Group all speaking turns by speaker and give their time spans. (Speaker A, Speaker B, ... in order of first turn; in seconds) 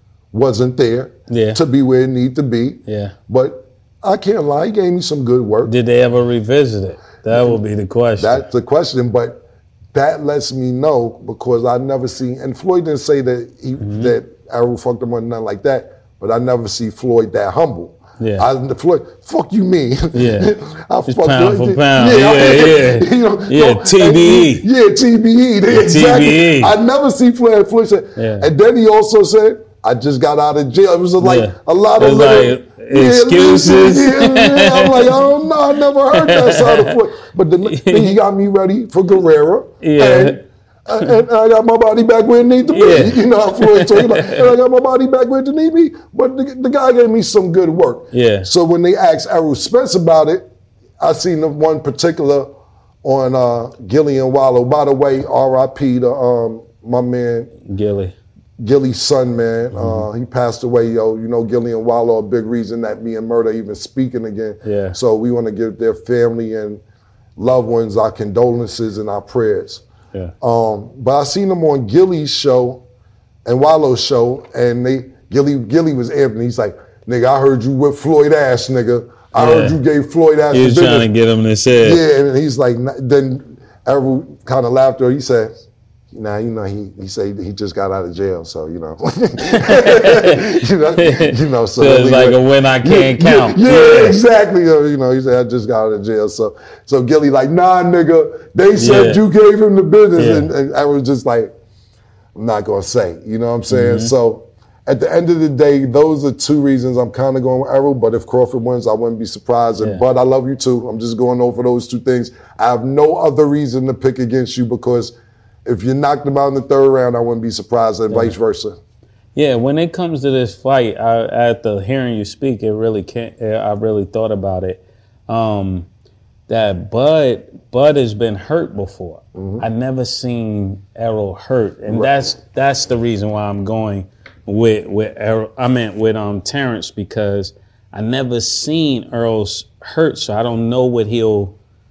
Speaker A: 0.3-5.7, 7.3-7.6, 8.2-57.5, 58.6-66.8, 67.4-69.8, 70.4-72.8, 73.5-81.1, 81.8-101.5, 102.3-118.8, 129.3-129.7
Speaker B: 1.3-1.6, 2.9-3.1, 5.6-8.5, 13.8-14.2, 18.2-18.5, 20.1-20.5, 21.1-24.7, 25.7-26.8, 28.2-28.5, 31.2-35.2, 36.1-36.9, 37.6-38.1, 39.8-40.4, 42.7-44.5, 48.1-48.5, 57.7-58.1, 59.7-60.1, 64.6-65.0, 79.4-79.8, 80.5-82.0, 89.5-94.2, 98.8-99.2, 100.2-100.5, 103.7-104.1, 118.1-118.4, 119.3-125.9, 126.5-141.6